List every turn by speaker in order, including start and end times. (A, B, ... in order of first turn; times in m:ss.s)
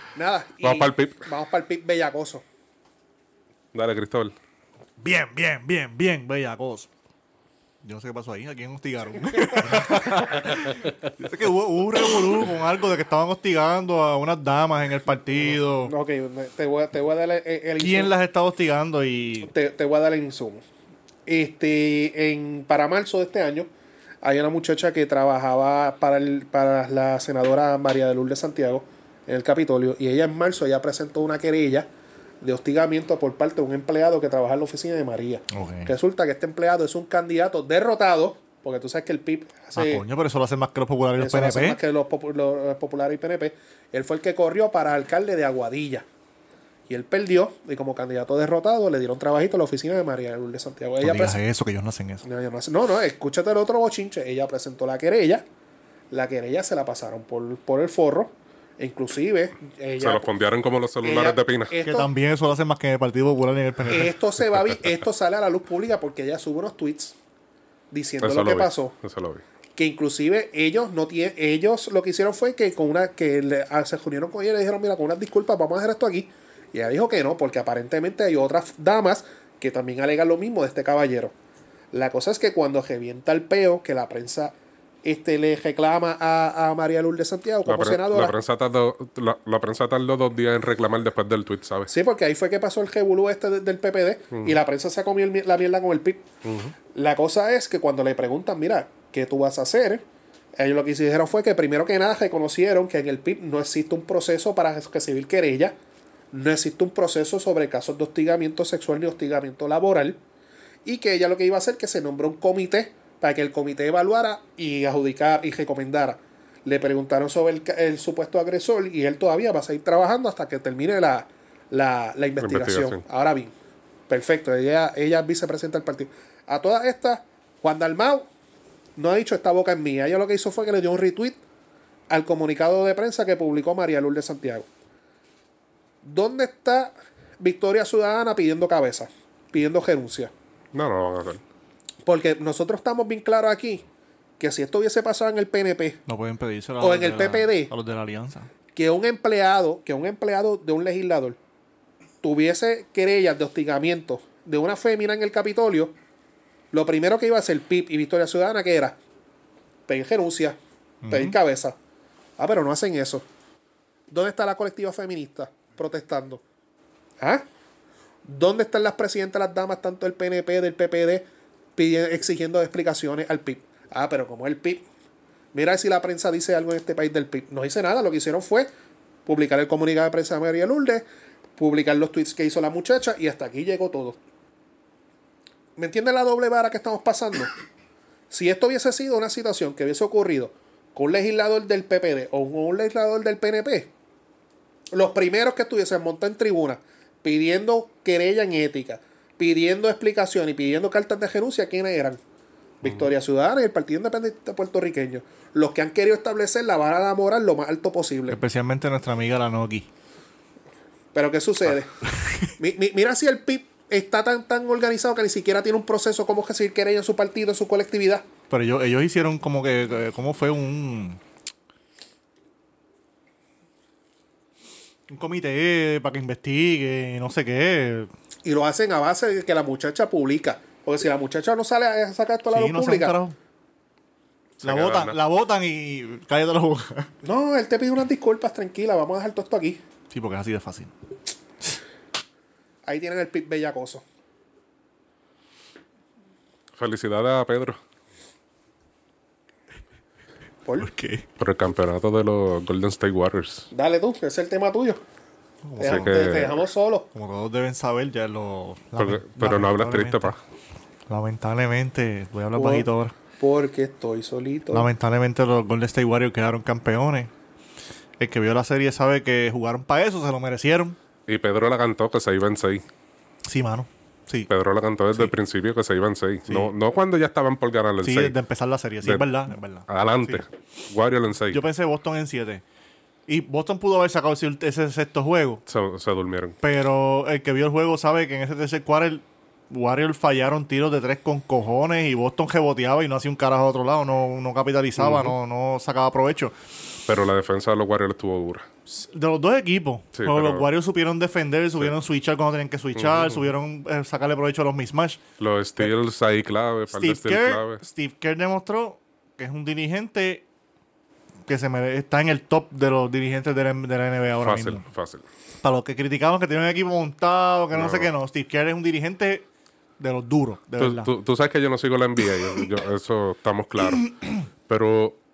0:00.2-0:02.4 A
0:00.6-0:01.2 B
0:03.7-0:04.3 B
0:05.0-0:06.9 C
0:07.8-0:15.9 C
0:15.8-0:18.1 A
0:17.8-0:19.5 C
0:19.4-0:20.6 A
0:21.3-0:23.7 A
0:24.2-0:31.9 A
0:32.4-0:40.0 A
0:35.5-0:35.9 C
0:39.8-0:41.8 C
0:41.2-0:46.1 A
0:46.9-0:51.4 A
0:51.0-0:52.2 C
0:52.2-0:55.4 A
0:56.1-1:00.3 A
1:00.0-1:01.7 B
1:01.0-1:02.1 A
1:01.8-1:04.1 C
1:03.9-1:07.2 A
1:07.9-1:08.9 A
1:08.2-1:09.4 B
1:09.8-1:21.3 A
1:21.9-1:28.4 A
1:27.7-1:31.9 B
1:31.9-1:36.2 A
1:36.4-1:36.7 B
1:36.9-1:40.0 A
1:40.6-1:45.8 A
1:46.3-1:50.2 A
1:50.8-2:03.5 A
2:02.4-2:03.0 B
2:04.1-2:08.3 A
2:09.0-2:11.4 A
2:12.1-2:14.7 A
2:16.0-2:20.3 A
2:20.7-2:21.4 B
2:22.0-2:23.8 A
2:24.4-2:26.0 A
2:26.1-2:28.5 C
2:26.8-2:27.7 A
2:28.8-2:31.4 A
2:32.2-2:35.9 A
2:36.7-2:39.0 A
2:39.9-2:40.6 A
2:41.0-2:41.4 C
2:41.1-2:41.8 A
2:42.4-2:43.3 A
2:44.1-2:46.4 A
2:48.2-2:54.8 A
2:55.5-2:58.7 A
2:59.3-3:01.0 A
3:01.6-3:04.2 A
3:05.8-3:07.5 A
3:08.3-3:13.9 A
3:14.9-3:22.2 A
3:22.8-3:28.4 A
3:28.3-3:29.9 C
3:31.1-3:31.9 A
3:32.1-3:32.5 C
3:32.6-3:38.2 A
3:38.5-3:41.2 C
3:45.1-3:48.1 C
3:48.4-3:53.2 A
3:52.5-3:53.4 C
3:54.6-3:55.2 B
3:54.6-3:57.1 C
3:57.2-3:59.8 A
4:00.1-4:00.9 C
4:02.9-4:04.0 A
4:06.8-4:07.8 B
4:10.8-4:11.3 C
4:11.4-4:13.7 B
4:13.7-4:15.0 A
4:15.6-4:16.4 C
4:15.8-4:17.1 A
4:15.8-4:16.6 B
4:17.1-4:20.4 C
4:19.0-4:20.4 B
4:21.1-4:23.2 C
4:22.6-4:22.9 A
4:23.4-4:24.9 A
4:24.7-4:27.3 C
4:28.2-4:31.0 C
4:31.3-4:32.8 B
4:33.5-4:34.5 C
4:34.5-4:38.4 B
4:36.5-4:36.7 C
4:38.0-4:40.4 C
4:39.0-4:39.3 B
4:39.9-4:41.6 B
4:41.5-4:42.6 C
4:43.3-4:45.6 C
4:45.7-4:46.6 B
4:46.6-4:56.6 C
4:55.0-4:55.4 B
4:57.1-4:58.7 B
4:58.9-5:05.2 C
5:00.1-5:00.7 B
5:03.0-5:03.5 B
5:05.4-5:07.8 B
5:06.9-5:10.4 C
5:11.5-5:14.8 C
5:14.4-5:15.3 B
5:15.6-5:19.5 C
5:17.7-5:18.1 B
5:20.0-5:21.1 C
5:20.8-5:24.2 B
5:24.0-5:24.3 C
5:24.7-5:25.2 B